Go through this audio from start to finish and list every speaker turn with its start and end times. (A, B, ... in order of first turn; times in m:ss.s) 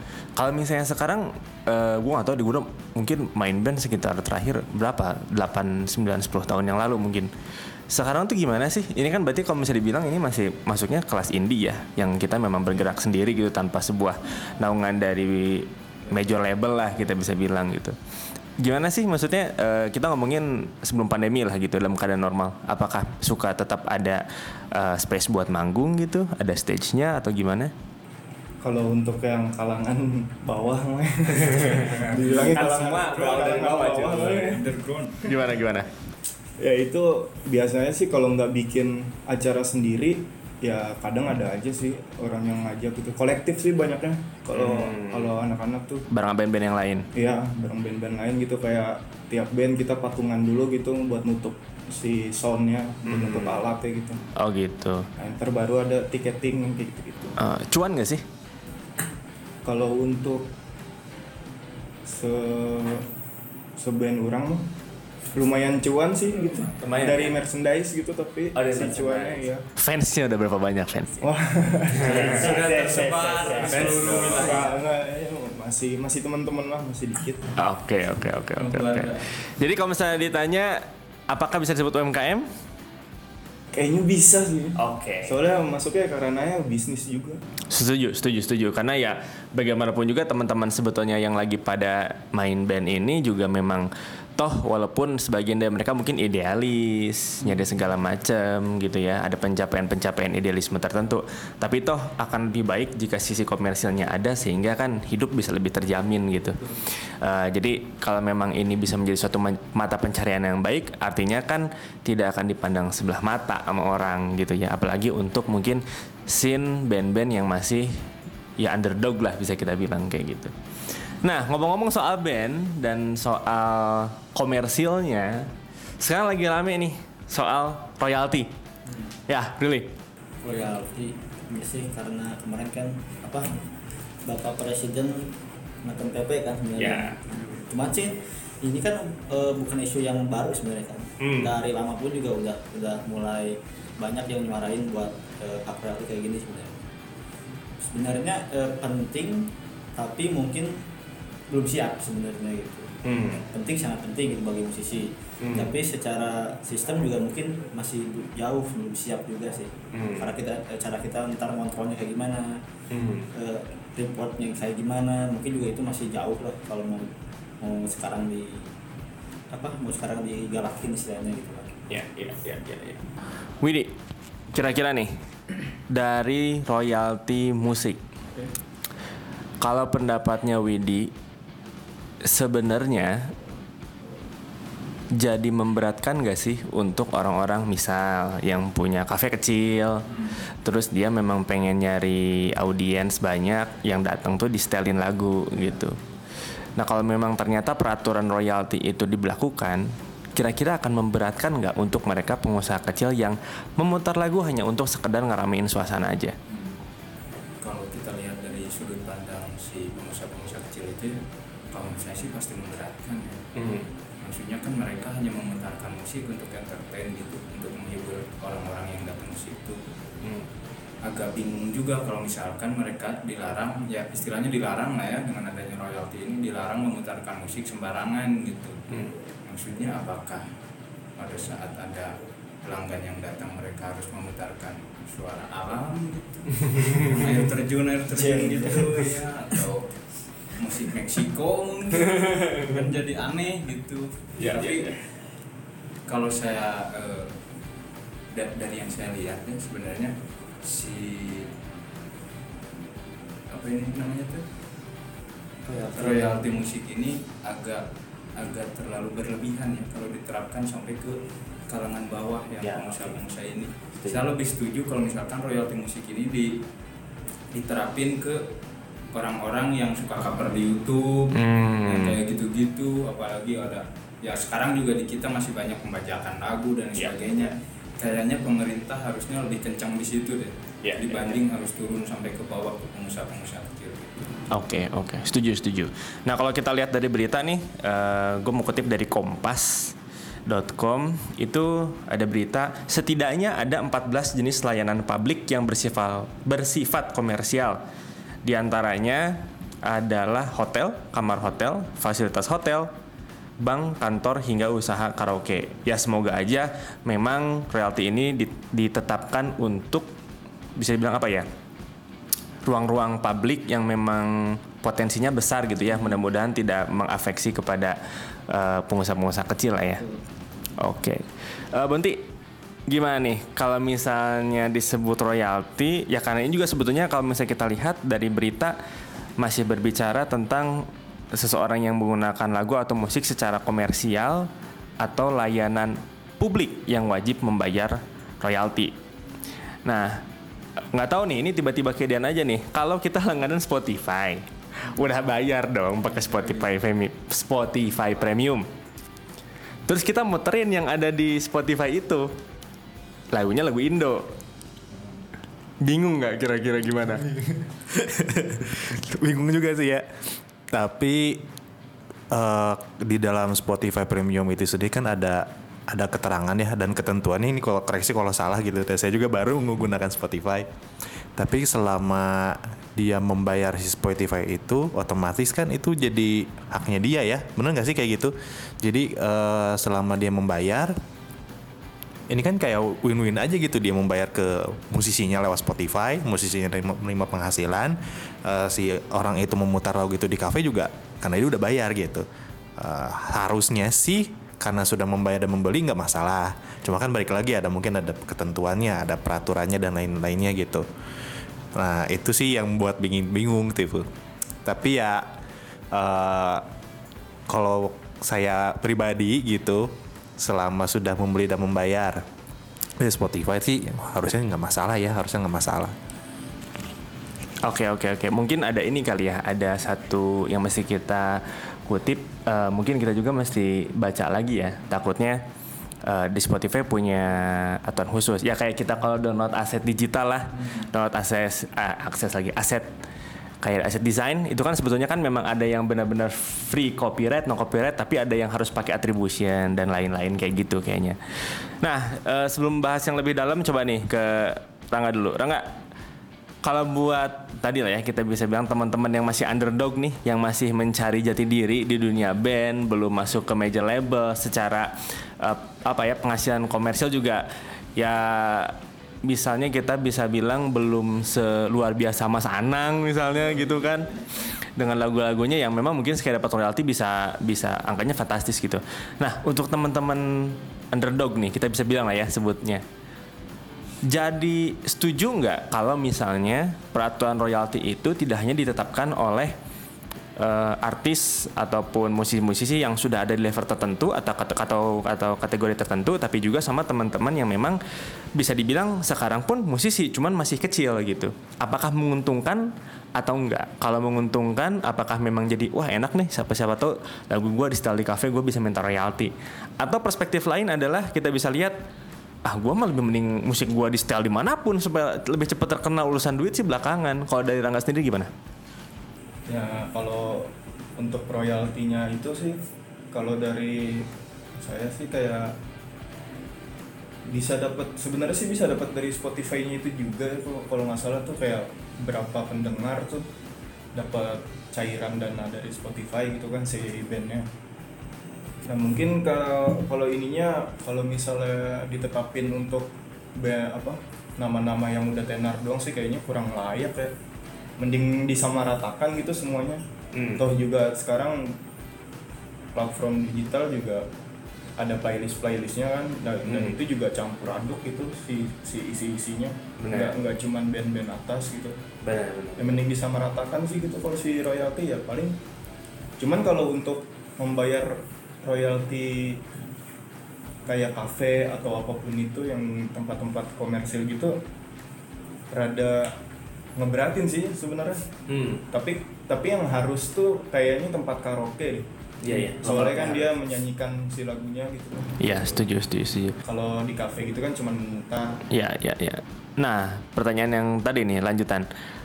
0:00.4-0:07.3 A
0:07.9-0:18.0 A
0:18.6-0:27.7 A
0:28.6-0:34.6 B
0:31.8-0:34.5 A
0:32.4-0:33.7 C
0:34.4-0:35.3 C
0:35.3-0:35.9 A
0:36.6-0:46.1 B
0:44.5-0:45.4 A
0:46.1-0:47.1 A
0:47.1-0:54.2 B
0:53.0-0:53.7 A
0:54.4-0:55.1 A
0:55.2-0:57.3 B
0:57.4-0:58.2 A
0:59.6-1:00.5 B
1:02.1-1:03.1 B
1:03.8-1:04.7 B
1:05.3-1:09.6 B
1:06.8-1:07.4 A
1:08.5-1:11.3 A
1:11.2-1:12.6 B
1:12.0-1:12.4 A
1:12.0-1:14.7 C
1:12.1-1:14.5 D
1:13.8-1:14.5 A
1:14.2-1:17.5 B
1:17.6-1:22.5 A
1:18.6-1:19.3 C
1:23.7-1:27.4 B
1:24.8-1:25.4 A
1:27.7-1:58.0 A
1:58.6-2:08.5 A
2:09.3-2:09.9 A
2:10.4-2:13.6 D
2:10.5-2:10.7 C
2:14.2-2:26.8 D
2:16.8-2:17.2 A
2:21.2-2:21.5 A
2:27.8-2:30.8 D
2:31.5-2:33.0 D
2:33.0-2:33.4 A
2:33.5-2:42.6 D
2:35.4-2:35.7 A
2:39.9-2:40.3 A
2:42.9-2:43.3 A
2:43.3-2:48.7 D
2:49.5-2:51.8 D
2:51.9-2:53.1 A
2:53.6-2:54.0 A
2:54.5-2:55.1 A
2:55.9-2:58.0 A
2:59.6-3:01.1 A
3:02.2-3:03.3 A
3:05.2-3:16.0 A
3:16.8-3:26.4 A
3:27.6-3:31.2 C
3:31.7-3:33.4 C
3:33.6-3:33.9 A
3:34.2-3:39.8 C
3:41.0-3:48.8 C
3:49.4-3:50.4 C
3:51.2-4:05.0 C
3:58.2-3:58.8 B
4:02.2-4:02.7 A
4:04.4-4:05.0 A
4:06.1-4:07.3 C
4:08.3-4:11.5 C
4:13.5-4:14.4 C
4:15.7-4:16.3 D
4:15.7-4:26.6 C
4:22.6-4:23.1 A
4:27.5-4:28.4 C
4:29.1-4:44.2 C
4:31.3-4:32.2 A
4:40.8-4:41.4 A
4:44.5-4:50.0 A
4:50.5-4:57.8 A
4:58.4-5:02.9 A
5:03.6-5:10.1 A
5:10.8-5:11.5 A
5:12.6-5:18.0 A
5:18.5-5:20.0 A
5:20.8-5:22.3 A
5:22.9-5:28.8 A
5:29.4-5:38.9 A
5:39.8-5:40.2 A
5:40.9-5:48.7 A
5:49.9-5:52.3 A
5:53.3-5:54.3 A
5:55.8-5:57.4 A
5:57.9-6:00.1 E
6:00.7-6:01.4 E
6:02.3-6:10.7 E
6:11.4-6:21.0 E
6:22.3-6:32.3 E
6:32.8-6:40.9 E
6:41.8-6:44.1 E
6:44.6-6:45.3 E
6:45.9-6:46.6 E
6:47.5-6:52.2 E
6:53.0-6:55.9 E
6:57.6-7:05.4 A
7:06.0-7:12.9 A
7:13.6-7:25.8 A
7:26.6-7:52.8 A
7:54.1-7:59.5 A
8:00.4-8:07.8 A
8:08.4-8:21.8 A
8:22.4-8:28.3 A
8:29.5-8:32.6 B
8:33.1-8:35.6 B
8:37.3-8:43.3 B
8:43.9-8:47.5 B
8:48.6-8:57.1 B
8:57.8-8:59.8 B
9:00.1-9:00.4 A
9:00.4-9:01.6 B
9:02.7-9:04.1 B
9:04.8-9:11.8 B
9:06.4-9:06.8 A
9:09.8-9:10.2 A
9:12.0-9:12.8 A
9:12.6-9:15.4 B
9:16.2-9:19.4 B
9:20.7-9:24.4 B
9:25.5-9:26.2 B
9:26.8-9:28.1 B
9:28.3-9:28.6 A
9:28.7-9:31.9 B
9:32.2-9:33.3 A
9:32.6-9:35.5 B
9:35.2-9:36.4 A
9:36.4-9:38.4 B
9:38.5-9:41.7 A